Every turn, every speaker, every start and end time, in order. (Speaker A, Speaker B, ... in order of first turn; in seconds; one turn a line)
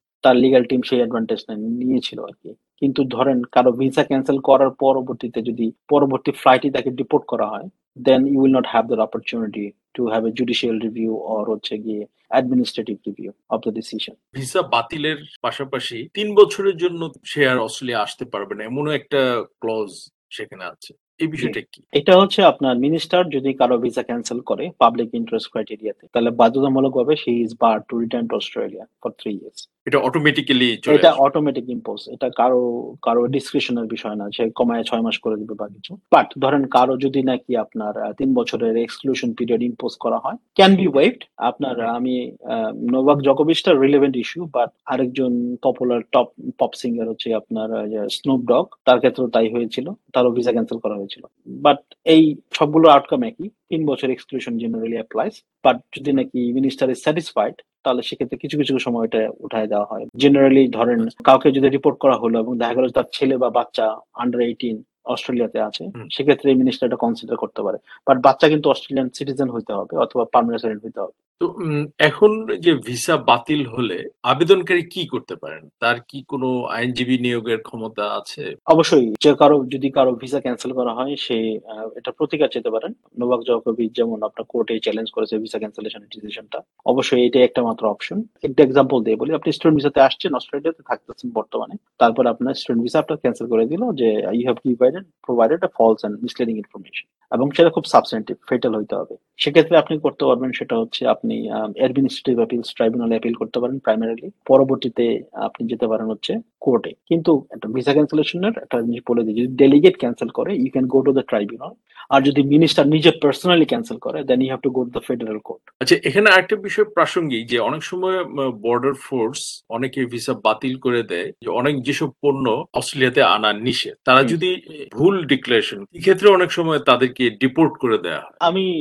Speaker A: 0.2-14.2
Speaker B: 14.3-21.8
Speaker A: 21.4-29.7
Speaker B: 29.9-31.2
Speaker A: 30.9-71.1
Speaker B: 71.4-78.4
Speaker A: 78.7-115.6
Speaker B: 115.8-128.4
Speaker A: 128.4-128.7